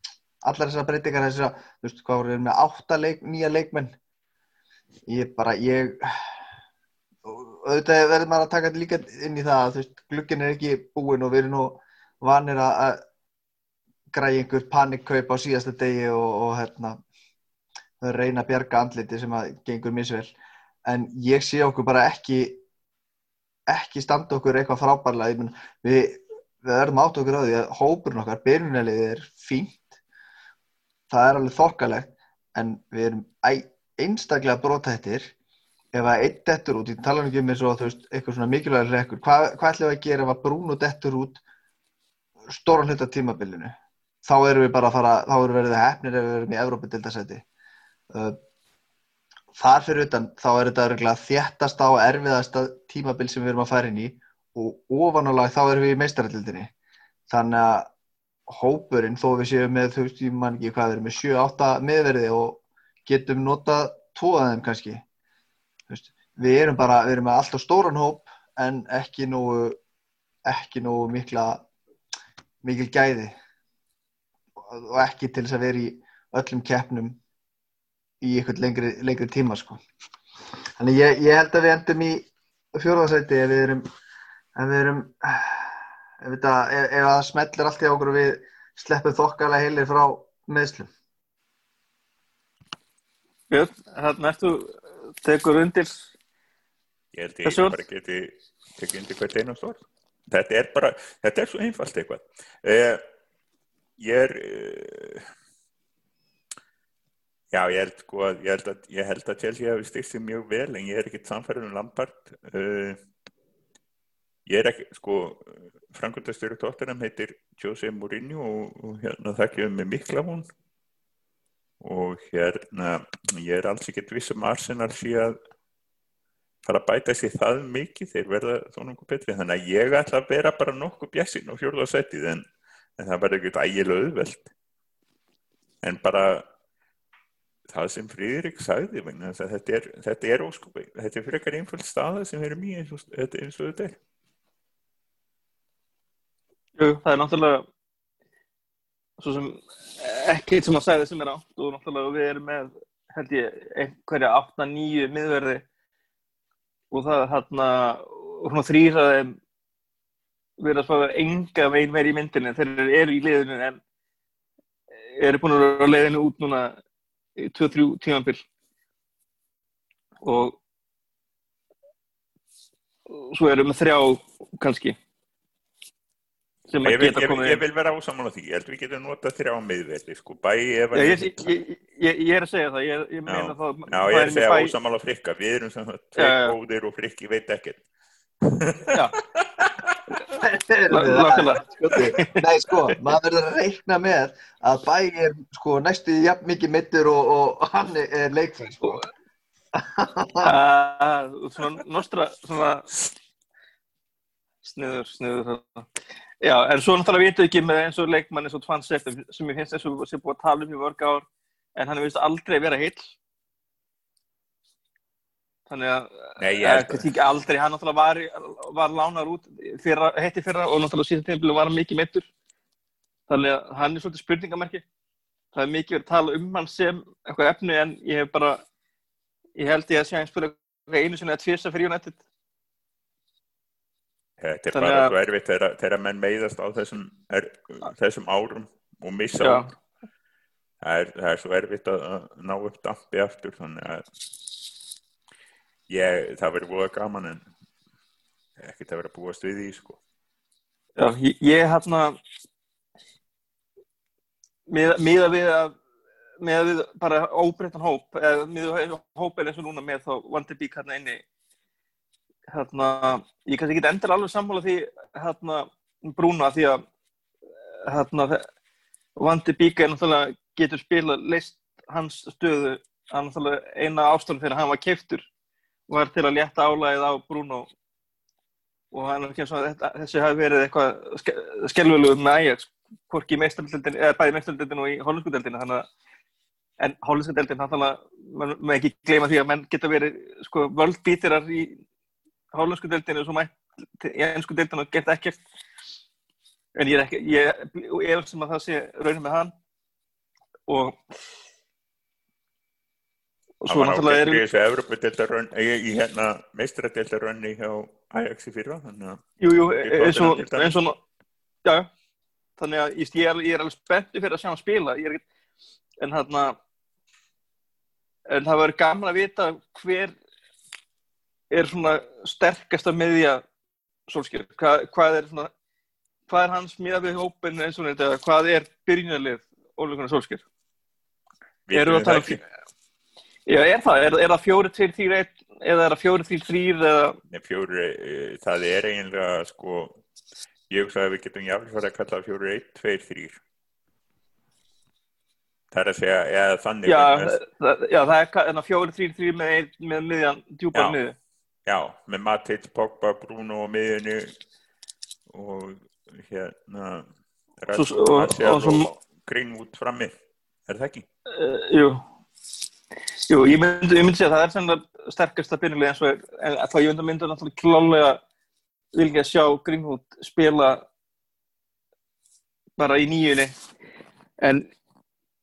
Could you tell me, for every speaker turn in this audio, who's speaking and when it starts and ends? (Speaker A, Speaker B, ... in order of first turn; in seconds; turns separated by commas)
Speaker A: 0.4-4.0, Speaker A: 5.1-6.4, Speaker A: 7.2-13.0, Speaker A: 14.1-17.0, Speaker A: 18.0-22.6, Speaker A: 23.7-29.9, Speaker A: 31.1-35.3, Speaker A: 35.9-41.4, Speaker A: 42.5-47.5, Speaker A: 48.1-48.4, Speaker A: 49.5-56.7, Speaker A: 57.3-57.9, Speaker A: 58.5-65.0, Speaker A: 65.9-69.8, Speaker A: 70.5-71.7, Speaker A: 72.6-73.4, Speaker A: 74.6-77.2, Speaker A: 78.2-79.8, Speaker A: 80.8-83.8, Speaker A: 84.5-90.9, Speaker B: 93.5-96.0, Speaker C: 97.1-103.0, Speaker B: 97.5-97.8, Speaker C: 104.0-105.3, Speaker C: 107.5-113.0, Speaker C: 114.5-120.5, Speaker C: 121.8-125.4, Speaker C: 126.7-132.4, Speaker C: 133.0-134.5, Speaker C: 135.8-136.5, Speaker C: 137.7-144.0, Speaker B: 146.8-147.7, Speaker B: 149.2-155.6, Speaker B: 156.9-159.4, Speaker B: 160.6-163.8, Speaker B: 165.2-166.8, Speaker B: 167.4-168.4, Speaker B: 170.2-170.6, Speaker B: 173.1-175.0, Speaker B: 176.7-177.6, Speaker C: 176.8-181.5, Speaker B: 180.9-184.7, Speaker C: 183.3-187.8, Speaker B: 186.2-186.6, Speaker C: 188.4-189.9, Speaker B: 188.9-189.2, Speaker A: 190.4-199.1, Speaker B: 190.9-192.4, Speaker A: 199.8-200.5, Speaker B: 200.4-202.9, Speaker B: 204.6-205.9, Speaker B: 206.4-211.3, Speaker B: 211.8-213.2, Speaker B: 215.7-222.3, Speaker C: 216.4-217.1, Speaker B: 223.3-224.8, Speaker B: 225.5-228.6, Speaker B: 229.6-232.2, Speaker C: 234.4-239.7, Speaker B: 234.7-235.1, Speaker B: 239.4-239.7, Speaker C: 240.8-244.0, Speaker C: 245.9-247.4, Speaker C: 248.6-250.0, Speaker B: 251.0-252.2, Speaker B: 254.7-255.8, Speaker B: 256.4-261.2, Speaker B: 262.5-266.8, Speaker B: 267.9-268.4, Speaker B: 269.2-275.3, Speaker B: 275.9-277.7, Speaker B: 278.9-285.9, Speaker B: 286.8-291.8, Speaker B: 292.5-295.4, Speaker B: 296.8-299.5, Speaker B: 300.7-301.0, Speaker B: 303.6-304.4, Speaker C: 303.7-310.7, Speaker B: 309.4-311.0, Speaker B: 312.6-315.2, Speaker B: 316.0-316.6, Speaker B: 318.3-320.1, Speaker B: 321.5-323.4, Speaker B: 324.1-325.5, Speaker B: 326.3-330.4, Speaker C: 331.7-332.4, Speaker B: 331.7-332.4, Speaker B: 333.5-337.2, Speaker C: 337.3-340.0, Speaker C: 340.7-343.4, Speaker C: 345.7-347.4, Speaker B: 346.9-351.1, Speaker C: 351.7-354.3, Speaker C: 355.3-357.1, Speaker C: 357.6-360.1, Speaker B: 357.7-358.9, Speaker C: 360.7-361.1, Speaker B: 361.3-362.0, Speaker B: 363.3-368.2, Speaker B: 368.9-370.9, Speaker B: 372.8-373.5, Speaker B: 374.4-374.7